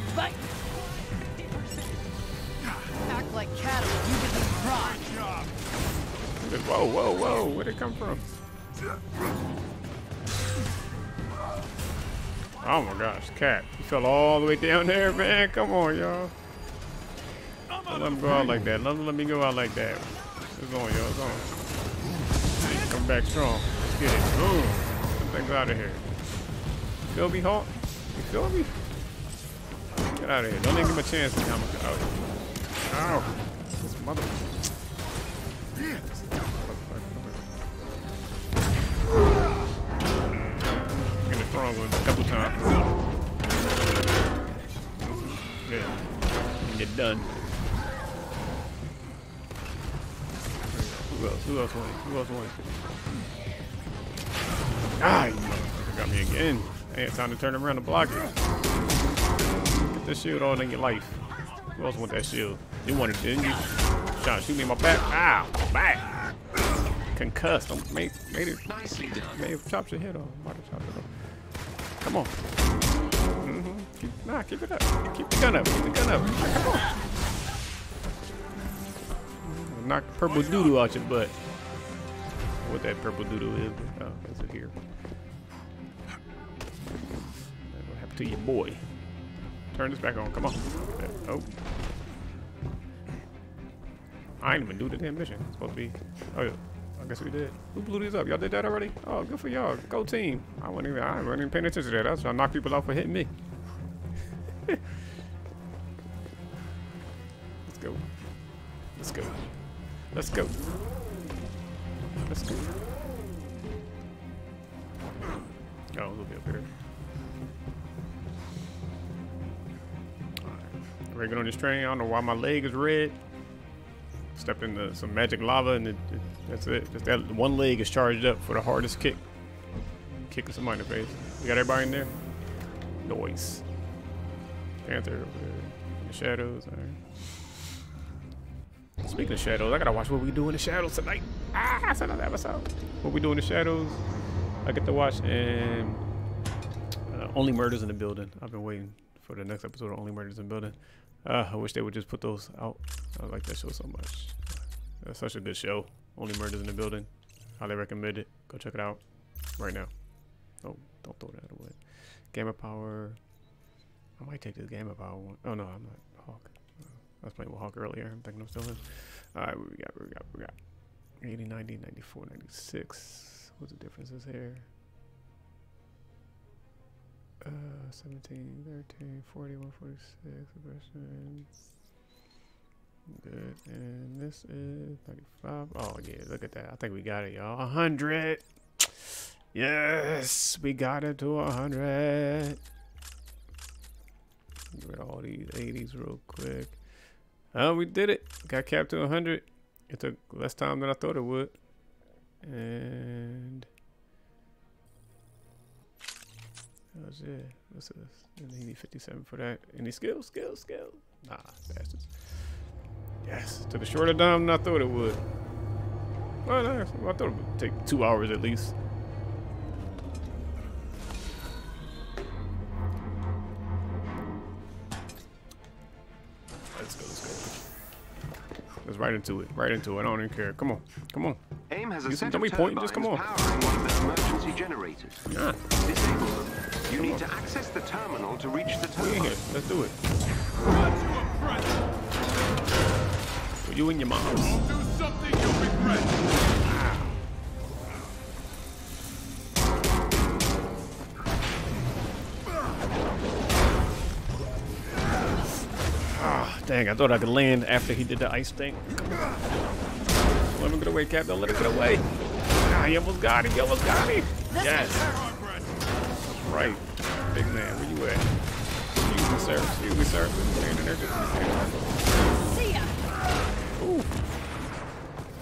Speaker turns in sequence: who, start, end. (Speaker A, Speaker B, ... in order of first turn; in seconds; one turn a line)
Speaker A: 0.1-0.5
Speaker A: 1.3-1.9
Speaker A: 3.0-5.0
Speaker B: 4.6-5.5
Speaker C: 6.4-8.2
Speaker C: 12.6-16.3
Speaker B: 17.7-18.2
Speaker C: 17.8-21.5
Speaker C: 22.6-26.1
Speaker C: 27.1-28.7
Speaker C: 30.1-32.1
Speaker C: 32.9-34.6
Speaker C: 36.4-37.4
Speaker C: 40.3-42.8
Speaker C: 45.0-46.0
Speaker C: 46.6-47.3
Speaker C: 50.7-52.7
Speaker C: 55.0-58.3
Speaker C: 59.5-61.2
Speaker C: 61.7-66.1
Speaker C: 67.1-71.1
Speaker D: 68.7-69.5
Speaker C: 72.0-72.3
Speaker C: 73.4-76.9
Speaker C: 79.4-81.4
Speaker B: 80.3-80.8
Speaker C: 82.6-84.8
Speaker C: 87.6-88.9
Speaker C: 89.7-91.5
Speaker C: 94.4-103.3
Speaker C: 107.7-108.0
Speaker C: 109.0-109.5
Speaker C: 110.0-110.6
Speaker C: 112.3-112.7
Speaker C: 115.9-116.7
Speaker C: 120.4-123.2
Speaker C: 124.3-129.2
Speaker C: 130.3-132.2
Speaker C: 133.0-133.6
Speaker C: 134.8-137.0
Speaker C: 139.0-144.1
Speaker C: 144.6-146.0
Speaker C: 147.1-159.9
Speaker C: 160.6-163.2
Speaker C: 164.2-170.6
Speaker C: 171.2-174.7
Speaker C: 177.4-181.5
Speaker C: 183.1-192.6
Speaker C: 194.7-196.8
Speaker C: 197.5-201.6
Speaker C: 202.4-203.7
Speaker C: 206.9-212.6
Speaker C: 213.2-215.2
Speaker C: 216.4-218.7
Speaker C: 226.8-227.6
Speaker C: 228.8-231.4
Speaker D: 231.7-235.2
Speaker C: 232.1-233.2
Speaker C: 235.3-235.6
Speaker D: 235.8-239.4
Speaker C: 237.0-237.2
Speaker C: 239.0-240.0
Speaker B: 240.6-241.8
Speaker C: 243.7-244.6
Speaker B: 244.3-246.3
Speaker C: 246.6-247.2
Speaker C: 256.1-259.3
Speaker C: 260.5-262.1
Speaker C: 262.6-265.1
Speaker A: 264.5-265.1
Speaker B: 264.9-265.8
Speaker C: 266.3-268.3
Speaker C: 268.9-271.9
Speaker A: 272.4-272.9
Speaker C: 273.8-274.1